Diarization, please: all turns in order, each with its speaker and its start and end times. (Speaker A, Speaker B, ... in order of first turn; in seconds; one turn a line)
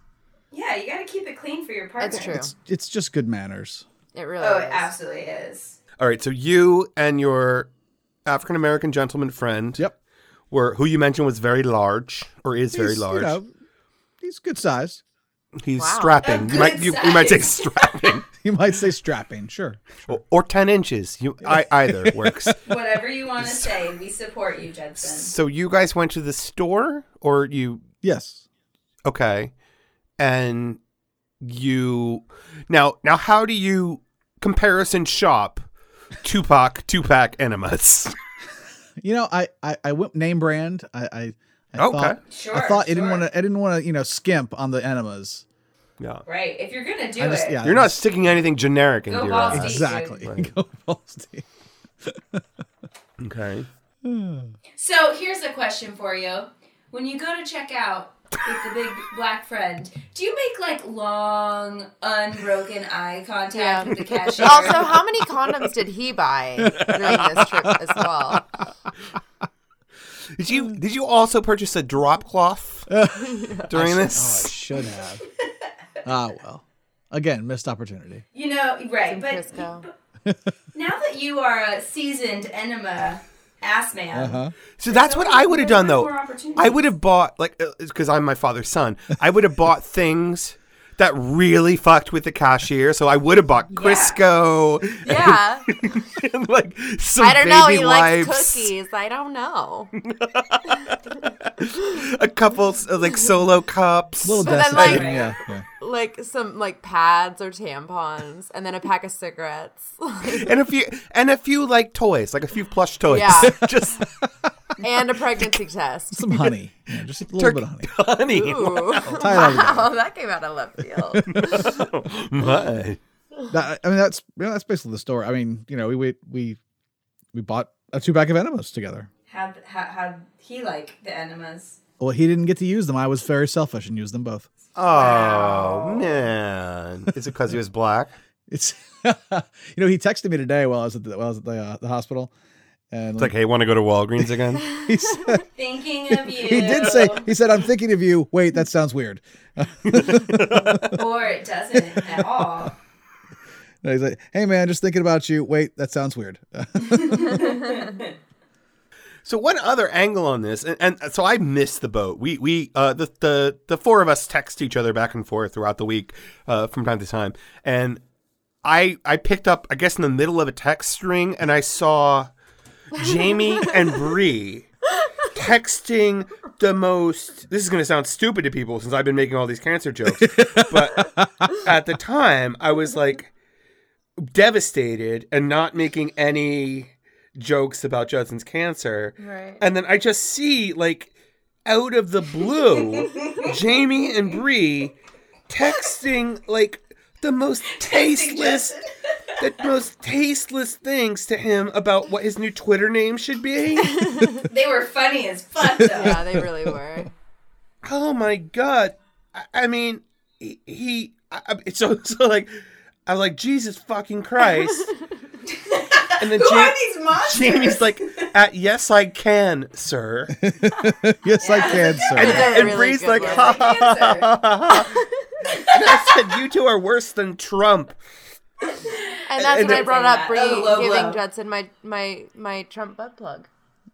Speaker A: 0.5-2.5
Speaker B: 2.0-2.5
Speaker C: 2.4-3.8
Speaker B: 4.1-4.9
Speaker A: 4.4-5.8
Speaker D: 6.0-7.7
Speaker D: 8.2-9.8
Speaker D: 10.5-13.4
Speaker C: 12.7-13.5
Speaker C: 14.2-15.0
Speaker D: 15.6-18.2
Speaker B: 15.8-16.2
Speaker A: 16.2-18.1
Speaker C: 18.4-20.2
Speaker D: 20.1-22.6
Speaker C: 21.4-22.6
Speaker A: 22.6-25.3
Speaker D: 25.0-27.8
Speaker C: 28.0-28.4
Speaker D: 29.0-29.5
Speaker D: 30.2-30.8
Speaker D: 31.4-35.6
Speaker D: 36.2-38.1
Speaker C: 39.0-45.4
Speaker D: 41.8-42.2
Speaker A: 42.3-43.2
Speaker D: 46.0-46.2
Speaker A: 46.2-47.6
Speaker C: 47.2-48.0
Speaker D: 47.6-50.5
Speaker A: 49.1-50.2
Speaker C: 49.5-51.4
Speaker C: 52.0-52.4
Speaker D: 53.2-53.7
Speaker C: 54.0-54.5
Speaker A: 54.8-65.0
Speaker B: 63.5-68.5
Speaker D: 64.3-64.7
Speaker C: 66.6-68.4
Speaker D: 66.8-67.3
Speaker D: 70.4-72.9
Speaker C: 72.9-75.2
Speaker B: 73.2-74.0
Speaker D: 73.7-74.5
Speaker C: 76.0-78.2
Speaker A: 78.3-79.9
Speaker B: 79.1-79.9
Speaker C: 80.2-80.5
Speaker A: 80.7-86.8
Speaker C: 84.1-84.5
Speaker D: 84.8-98.7
Speaker A: 93.8-94.2
Speaker B: 95.0-95.8
Speaker B: 97.2-99.9
Speaker D: 100.0-105.0
Speaker C: 104.2-105.6
Speaker B: 104.4-110.5
Speaker A: 104.8-105.3
Speaker D: 110.3-114.1
Speaker B: 113.1-113.6
Speaker B: 114.8-116.5
Speaker C: 116.1-117.9
Speaker D: 117.3-119.6
Speaker B: 118.3-121.8
Speaker C: 119.1-119.9
Speaker C: 121.1-121.7
Speaker D: 121.3-123.0
Speaker C: 123.5-126.6
Speaker C: 127.3-129.1
Speaker A: 129.3-131.8
Speaker C: 132.0-134.5
Speaker D: 134.8-138.1
Speaker A: 134.9-136.3
Speaker C: 138.5-142.3
Speaker C: 142.9-143.3
Speaker D: 143.2-144.7
Speaker C: 144.7-145.5
Speaker A: 145.6-147.3
Speaker C: 146.3-151.0
Speaker D: 149.9-150.9
Speaker A: 150.9-152.8
Speaker C: 153.8-157.6
Speaker A: 156.8-158.1
Speaker D: 159.2-168.0
Speaker D: 168.6-172.3
Speaker D: 172.9-174.7
Speaker D: 175.3-183.3
Speaker C: 180.2-181.5
Speaker D: 184.2-191.1
Speaker B: 189.2-189.6
Speaker D: 191.6-194.9
Speaker A: 192.9-193.5
Speaker D: 195.5-198.8
Speaker A: 197.8-198.8
Speaker D: 199.4-204.1
Speaker B: 203.9-204.4
Speaker A: 204.4-206.2
Speaker C: 205.8-206.7
Speaker B: 205.9-207.1
Speaker D: 207.8-212.5
Speaker D: 213.1-214.9
Speaker A: 215.5-218.2
Speaker D: 216.2-220.3
Speaker C: 220.4-222.5
Speaker A: 221.4-224.3
Speaker B: 222.0-223.7
Speaker D: 222.1-225.0
Speaker B: 224.7-225.3
Speaker A: 225.5-226.0
Speaker D: 225.6-228.0
Speaker A: 228.8-231.2
Speaker B: 229.3-233.5
Speaker D: 229.4-229.8